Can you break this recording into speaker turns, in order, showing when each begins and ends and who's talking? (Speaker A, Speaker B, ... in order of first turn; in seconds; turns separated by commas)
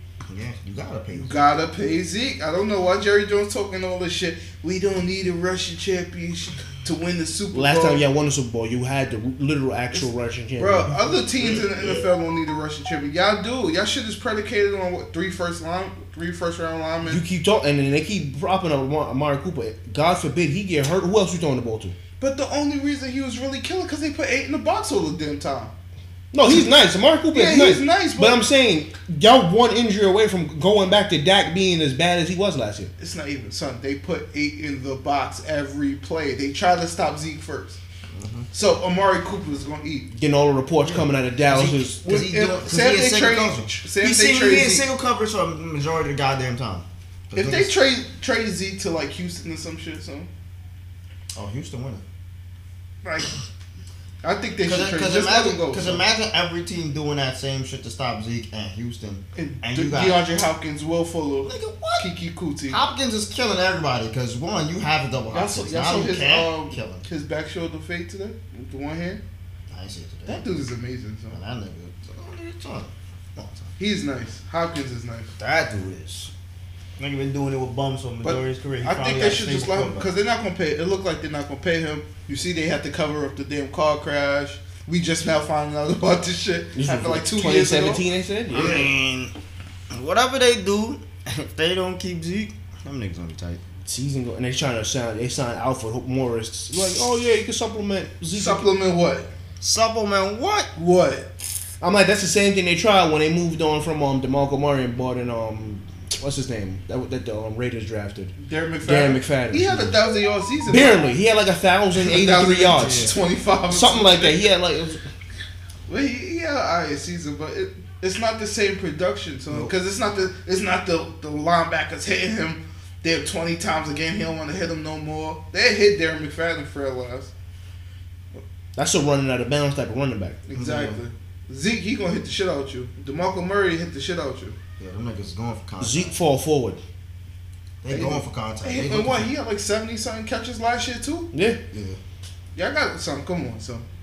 Speaker A: 0.3-1.3, Speaker B: 1.2-8.0, Speaker C: 7.5-10.9, Speaker B: 10.6-17.2, Speaker A: 11.4-12.0, Speaker C: 17.1-22.0, Speaker B: 22.2-25.7, Speaker C: 26.3-32.9, Speaker B: 27.3-28.4, Speaker B: 33.0-37.8, Speaker A: 38.1-38.5, Speaker B: 38.5-40.1, Speaker C: 40.1-42.0, Speaker A: 40.8-47.7, Speaker B: 42.0-44.9, Speaker B: 47.4-50.3, Speaker A: 51.3-52.0, Speaker B: 53.0-53.3, Speaker B: 54.2-56.0, Speaker A: 54.6-60.3, Speaker B: 59.4-62.8, Speaker A: 61.5-62.1, Speaker A: 62.7-67.0, Speaker B: 65.3-69.2, Speaker A: 69.7-70.5, Speaker B: 70.3-71.4, Speaker A: 71.3-73.7, Speaker B: 73.8-75.3, Speaker A: 75.4-76.3, Speaker A: 77.0-80.1, Speaker B: 78.2-88.9, Speaker C: 86.8-88.8, Speaker A: 88.5-89.3, Speaker A: 89.9-93.6, Speaker C: 93.9-98.7, Speaker B: 98.3-99.3, Speaker A: 99.6-100.7, Speaker B: 100.8-101.3, Speaker C: 101.8-108.3, Speaker B: 108.4-111.1, Speaker C: 108.8-110.0, Speaker C: 110.7-113.1, Speaker B: 112.0-114.5, Speaker A: 112.7-113.1, Speaker C: 113.7-115.0, Speaker B: 115.9-127.3, Speaker C: 128.8-130.4, Speaker B: 130.5-134.6, Speaker A: 130.5-131.0, Speaker A: 134.8-136.2, Speaker C: 135.8-136.8, Speaker A: 137.8-139.3, Speaker B: 137.9-141.3, Speaker C: 141.3-141.6, Speaker A: 141.7-142.0, Speaker B: 142.6-143.8